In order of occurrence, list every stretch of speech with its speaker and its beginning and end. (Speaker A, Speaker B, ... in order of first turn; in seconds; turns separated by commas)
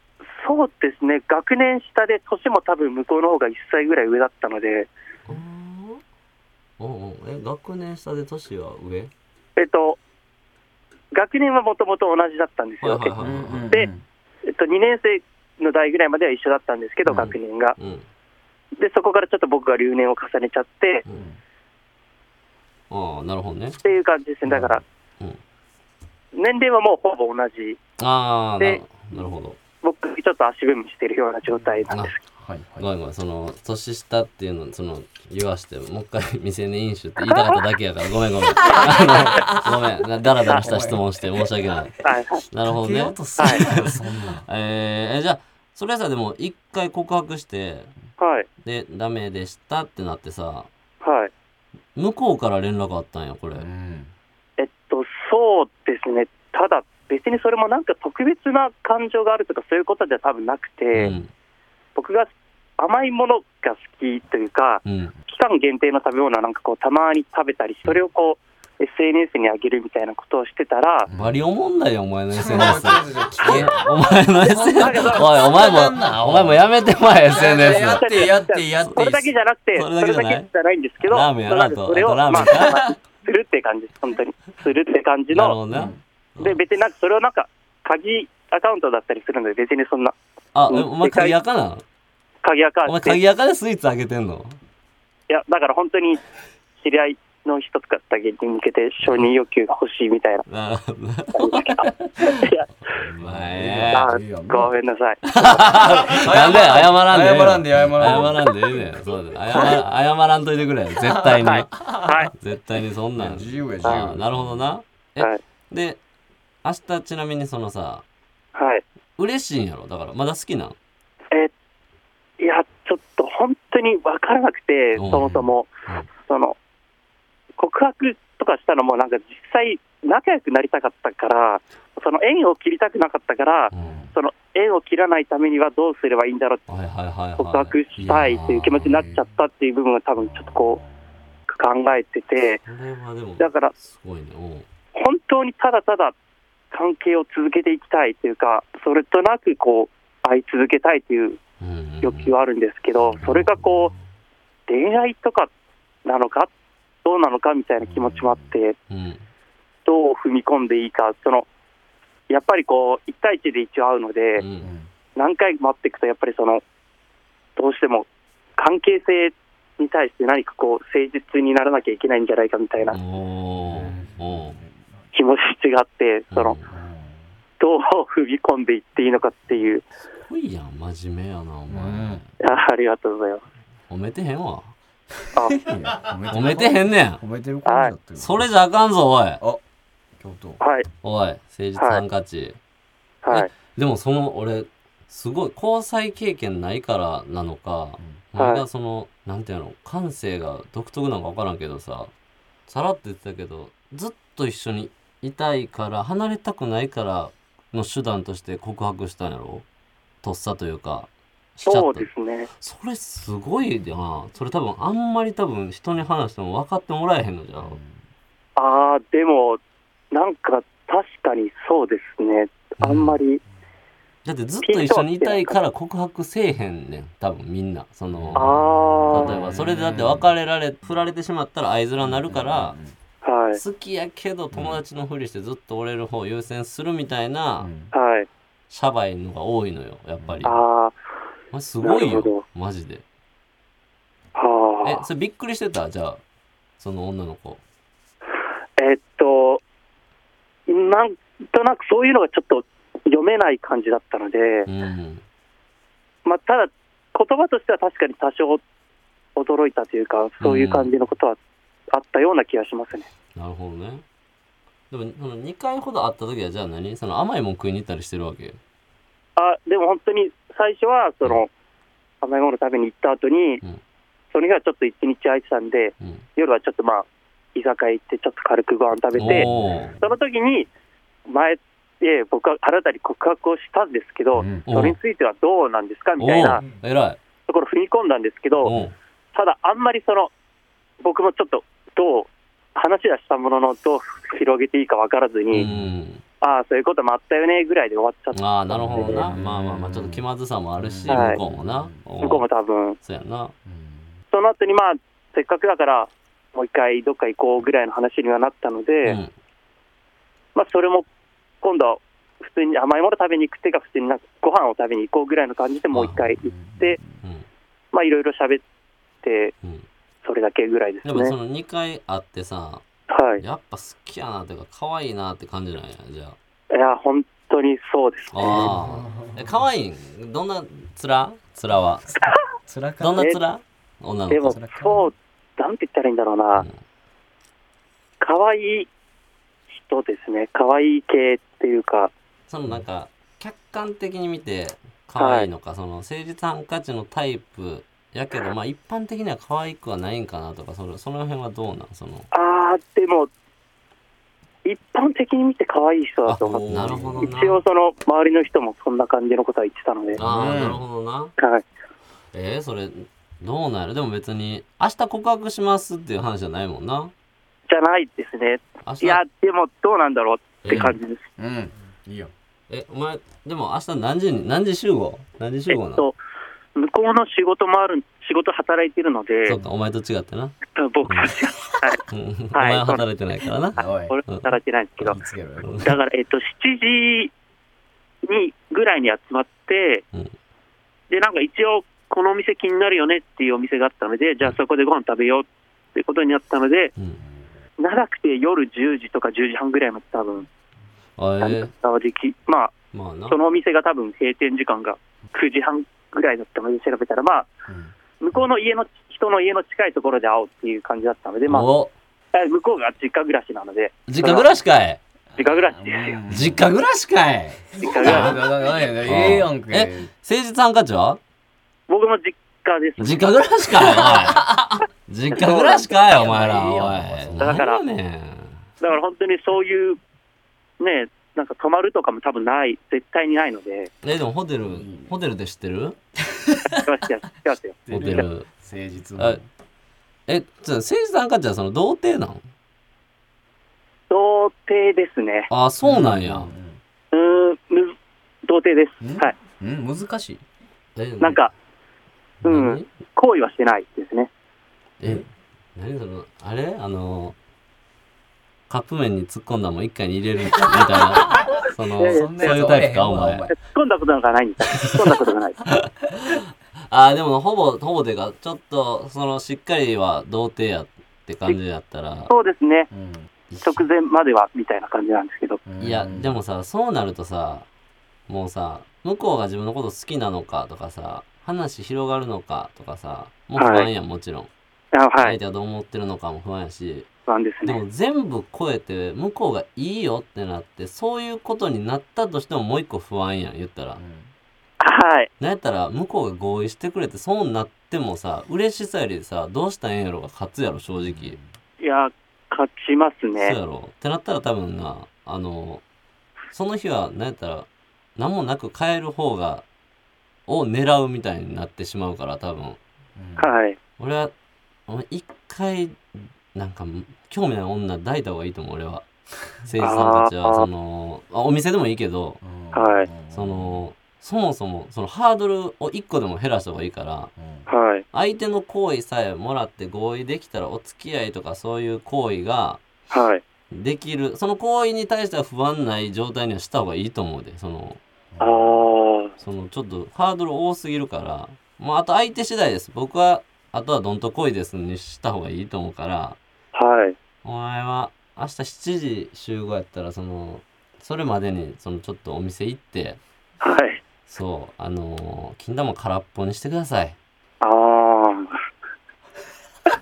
Speaker A: 0.3-4.9, Speaker B: 5.3-6.0, Speaker B: 6.8-9.1, Speaker A: 9.6-10.0, Speaker A: 11.1-13.2, Speaker B: 12.8-13.7, Speaker C: 13.2-14.0, Speaker A: 14.4-17.7, Speaker B: 17.1-18.0, Speaker A: 18.8-21.0, Speaker C: 21.1-21.4, Speaker B: 22.9-23.8, Speaker A: 23.8-24.8, Speaker A: 26.3-27.8, Speaker B: 28.0-29.6, Speaker A: 29.8-32.2, Speaker C: 32.4-32.9, Speaker B: 32.8-42.0, Speaker A: 37.3-37.6, Speaker C: 38.6-39.9, Speaker C: 40.5-41.5, Speaker A: 42.0-42.4, Speaker B: 42.5-47.9, Speaker C: 42.6-44.5, Speaker A: 43.4-43.6, Speaker A: 48.2-48.5, Speaker B: 48.6-50.7, Speaker A: 51.0-51.3, Speaker B: 51.9-53.7, Speaker C: 53.5-54.1, Speaker A: 54.6-61.1, Speaker B: 60.9-61.3, Speaker A: 62.0-71.1, Speaker B: 64.8-65.1, Speaker C: 71.1-71.4, Speaker B: 71.1-78.3, Speaker C: 72.3-76.6, Speaker A: 73.4-73.9, Speaker A: 74.4-75.5, Speaker C: 77.3-79.2, Speaker A: 77.5-85.5, Speaker B: 78.8-79.2, Speaker B: 79.7-80.5, Speaker B: 81.0-82.9, Speaker B: 85.3-86.6, Speaker C: 85.7-86.0, Speaker A: 86.4-90.1, Speaker B: 90.5-91.8, Speaker A: 90.7-91.3, Speaker A: 92.4-93.2, Speaker B: 92.9-94.6, Speaker A: 95.3-96.2, Speaker A: 96.8-100.5, Speaker B: 99.0-99.3, Speaker B: 100.5-102.3, Speaker A: 101.4-102.7, Speaker B: 102.9-104.1, Speaker C: 103.2-104.7, Speaker A: 103.9-105.2, Speaker B: 105.3-116.0, Speaker C: 105.8-108.7, Speaker C: 109.5-109.8, Speaker C: 111.0-112.1, Speaker A: 111.4-112.3, Speaker C: 113.2-114.7, Speaker B: 116.6-118.0, Speaker A: 118.5-118.8, Speaker B: 119.2-120.8, Speaker A: 122.4-125.7, Speaker B: 125.0-126.1, Speaker A: 126.2-126.6, Speaker A: 127.6-136.6, Speaker B: 133.7-134.0, Speaker C: 133.8-134.1, Speaker B: 136.7-139.0, Speaker A: 137.4-140.8, Speaker A: 141.5-142.6, Speaker B: 142.7-144.7, Speaker A: 143.4-143.7, Speaker A: 144.9-146.1, Speaker A: 146.7-151.4, Speaker B: 151.6-152.3, Speaker A: 152.0-153.9, Speaker B: 153.1-153.9, Speaker A: 154.7-155.5, Speaker A: 156.0-156.5, Speaker A: 157.0-158.7, Speaker C: 157.8-158.6, Speaker B: 158.9-159.2, Speaker A: 159.8-161.5, Speaker A: 162.3-164.4, Speaker B: 164.4-164.7, Speaker C: 164.6-164.9, Speaker A: 165.2-166.6, Speaker A: 167.6-173.0, Speaker B: 172.9-174.6, Speaker C: 173.7-174.7, Speaker A: 175.1-176.6, Speaker B: 176.3-176.7, Speaker C: 176.7-177.2, Speaker A: 177.6-179.8, Speaker B: 180.3-182.2, Speaker C: 181.7-182.2, Speaker A: 182.4-183.4, Speaker B: 183.9-184.7, Speaker A: 185.3-185.6, Speaker C: 185.5-188.5, Speaker B: 186.3-187.2, Speaker A: 187.7-187.9, Speaker B: 188.2-189.4, Speaker C: 190.2-190.6, Speaker A: 190.6-190.9, Speaker B: 191.0-192.6, Speaker A: 191.8-192.0, Speaker A: 193.2-193.5, Speaker B: 193.3-202.1, Speaker A: 198.4-198.6, Speaker B: 202.7-209.6, Speaker B: 210.2-217.8, Speaker A: 211.7-212.5, Speaker C: 217.6-218.0, Speaker A: 218.6-219.6, Speaker A: 220.1-223.4, Speaker B: 222.8-223.2, Speaker B: 224.2-228.5, Speaker A: 224.6-225.6, Speaker C: 228.1-230.3, Speaker A: 228.4-229.4, Speaker B: 229.1-232.8, Speaker C: 232.0-232.9, Speaker A: 233.2-233.6, Speaker B: 233.5-237.7, Speaker C: 234.5-234.8, Speaker C: 237.6-237.9, Speaker A: 237.9-238.3, Speaker B: 238.7-240.6, Speaker C: 240.2-240.5, Speaker A: 240.4-240.9, Speaker B: 241.5-243.0, Speaker A: 241.8-242.4, Speaker A: 244.4-245.0, Speaker B: 244.8-246.2, Speaker B: 246.8-247.6, Speaker A: 248.8-249.6, Speaker A: 250.7-254.7, Speaker B: 254.7-255.2, Speaker A: 256.2-258.6, Speaker A: 259.4-261.4, Speaker B: 260.4-260.9, Speaker A: 261.9-263.1, Speaker B: 263.4-264.0, Speaker B: 264.9-268.6, Speaker A: 269.4-271.5, Speaker A: 272.2-273.6, Speaker A: 274.3-279.5, Speaker B: 279.1-280.0, Speaker A: 280.0-280.7, Speaker A: 281.3-286.6, Speaker C: 284.4-284.6, Speaker B: 284.7-285.0, Speaker B: 286.2-287.2, Speaker A: 287.5-288.7, Speaker B: 288.6-288.9, Speaker A: 289.3-290.3, Speaker A: 291.0-295.6, Speaker B: 295.5-296.2, Speaker C: 295.6-295.9, Speaker A: 296.4-298.4, Speaker B: 298.3-302.4, Speaker C: 298.7-300.2, Speaker A: 298.9-299.2, Speaker C: 300.8-302.0, Speaker A: 301.1-301.4, Speaker A: 302.2-303.0, Speaker B: 303.0-303.5, Speaker C: 303.6-304.1, Speaker A: 304.3-309.2, Speaker B: 309.0-309.3, Speaker A: 310.5-311.1, Speaker A: 311.6-317.0, Speaker B: 315.9-316.4, Speaker C: 316.4-317.2, Speaker B: 317.2-317.5, Speaker A: 317.9-318.6, Speaker A: 319.2-319.5, Speaker A: 320.2-321.4, Speaker B: 321.0-322.8, Speaker A: 323.1-323.4, Speaker B: 323.4-326.4, Speaker A: 326.7-328.7, Speaker B: 328.3-332.1, Speaker C: 328.4-329.5, Speaker C: 332.6-333.2, Speaker B: 333.0-334.6, Speaker A: 334.3-336.6, Speaker C: 334.4-335.1, Speaker A: 338.2-338.9, Speaker A: 339.7-342.1, Speaker B: 342.5-352.3, Speaker A: 345.2-345.5, Speaker A: 352.3-353.3, Speaker A: 354.6-360.2, Speaker B: 356.2-357.6, Speaker C: 356.6-357.3, Speaker C: 360.1-360.8, Speaker B: 360.2-361.3, Speaker A: 361.4-361.6, Speaker B: 362.3-367.1, Speaker A: 367.7-371.2, Speaker B: 368.9-369.2, Speaker B: 370.6-370.9, Speaker C: 370.7-372.3, Speaker B: 372.7-376.1, Speaker A: 375.7-376.2, Speaker A: 376.8-379.6, Speaker B: 379.4-381.4, Speaker A: 380.7-382.0, Speaker B: 382.1-384.5, Speaker A: 382.5-383.0, Speaker C: 383.8-384.2, Speaker A: 383.8-385.2, Speaker C: 385.0-385.8, Speaker B: 385.6-385.9, Speaker A: 385.8-387.3, Speaker A: 388.2-390.0, Speaker A: 391.1-396.9, Speaker A: 397.8-400.5, Speaker B: 401.2-401.7, Speaker A: 401.4-402.7, Speaker B: 402.9-403.4, Speaker A: 403.3-407.5, Speaker C: 407.7-408.4, Speaker A: 408.2-411.7, Speaker B: 411.5-411.9, Speaker A: 412.3-414.4, Speaker B: 414.1-415.0, Speaker A: 415.4-416.2, Speaker C: 415.4-416.6, Speaker B: 416.3-418.4, Speaker A: 417.8-418.4, Speaker C: 417.8-420.1, Speaker B: 419.0-421.2, Speaker A: 421.9-423.4, Speaker B: 423.0-428.6, Speaker C: 424.0-424.7, Speaker A: 425.3-425.9, Speaker C: 426.0-427.6, Speaker A: 427.4-427.8, Speaker A: 428.8-430.0, Speaker A: 430.8-433.9, Speaker B: 434.0-435.9, Speaker C: 434.7-435.1, Speaker C: 436.3-436.7, Speaker A: 436.7-438.2, Speaker C: 437.9-439.5, Speaker B: 437.9-438.5, Speaker B: 440.3-442.4, Speaker A: 444.1-445.5, Speaker B: 445.5-446.5, Speaker C: 445.8-446.8, Speaker A: 447.1-447.9, Speaker A: 448.4-449.4, Speaker C: 449.0-450.4, Speaker B: 450.9-451.4, Speaker A: 451.2-451.5, Speaker B: 452.4-452.9, Speaker A: 452.4-454.3, Speaker B: 455.0-457.4, Speaker B: 458.7-463.5, Speaker A: 462.0-462.8, Speaker C: 462.0-463.5, Speaker A: 463.6-465.6, Speaker B: 465.7-472.3, Speaker A: 472.3-472.9, Speaker C: 472.9-473.3, Speaker B: 473.5-473.9, Speaker A: 473.6-475.6, Speaker C: 475.6-476.4, Speaker B: 475.8-477.6, Speaker B: 478.3-484.5, Speaker A: 483.6-483.9, Speaker A: 484.9-485.4, Speaker B: 485.2-487.1, Speaker A: 487.3-487.8, Speaker B: 487.6-494.0, Speaker C: 493.9-494.3, Speaker A: 494.8-495.3, Speaker B: 495.4-501.4, Speaker C: 501.0-501.5, Speaker A: 501.8-503.6, Speaker B: 503.4-505.8, Speaker B: 506.5-509.6, Speaker B: 510.5-512.8, Speaker C: 513.1-513.5, Speaker A: 513.4-513.8, Speaker B: 514.0-514.3, Speaker B: 514.9-519.1, Speaker B: 519.6-522.4, Speaker A: 519.8-520.7, Speaker C: 522.4-523.8, Speaker A: 522.7-523.1, Speaker B: 523.3-527.3, Speaker C: 527.4-527.7, Speaker A: 527.7-528.0, Speaker B: 528.1-532.8, Speaker A: 533.1-533.4, Speaker B: 533.7-538.0, Speaker C: 538.3-538.9, Speaker A: 538.4-539.3, Speaker B: 539.4-546.4, Speaker A: 546.7-547.1, Speaker B: 547.4-553.2, Speaker A: 553.6-554.0, Speaker B: 554.3-557.1, Speaker A: 557.6-558.6